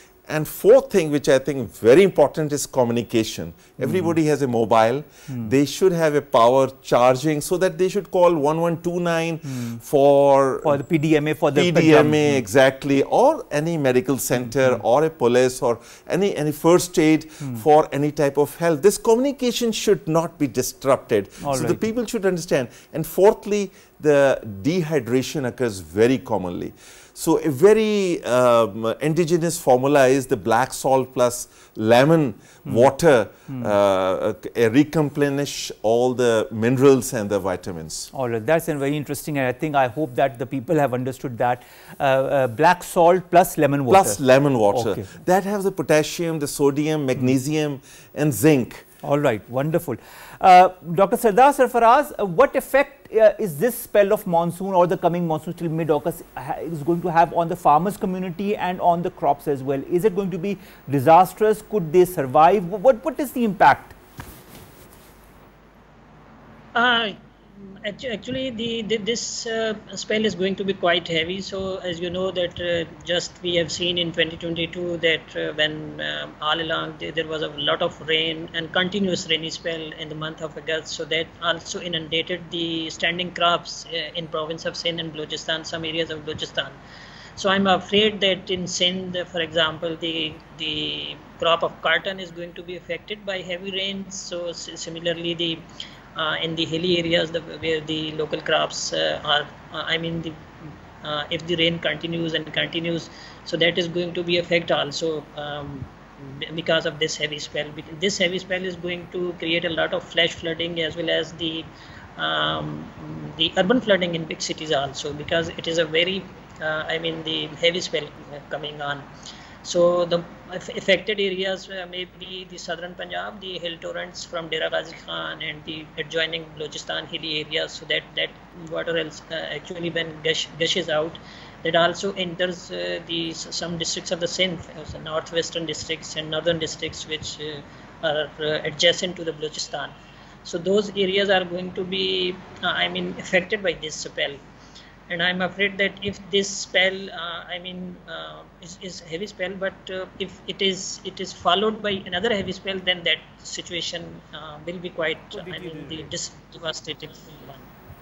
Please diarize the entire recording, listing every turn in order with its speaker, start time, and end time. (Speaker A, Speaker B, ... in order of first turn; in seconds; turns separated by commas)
Speaker A: 0.3-10.8, Speaker B: 3.8-4.1, Speaker B: 9.5-9.8, Speaker B: 10.6-12.4, Speaker A: 11.5-38.1, Speaker B: 21.4-21.8, Speaker B: 38.1-45.1, Speaker A: 43.9-48.9, Speaker B: 49.0-63.9, Speaker C: 66.7-67.2, Speaker C: 67.8-86.8, Speaker C: 87.4-95.6, Speaker C: 96.2-100.3, Speaker C: 101.0-119.0, Speaker C: 119.6-139.9, Speaker C: 140.4-144.4, Speaker C: 145.1-157.6, Speaker B: 155.3-156.1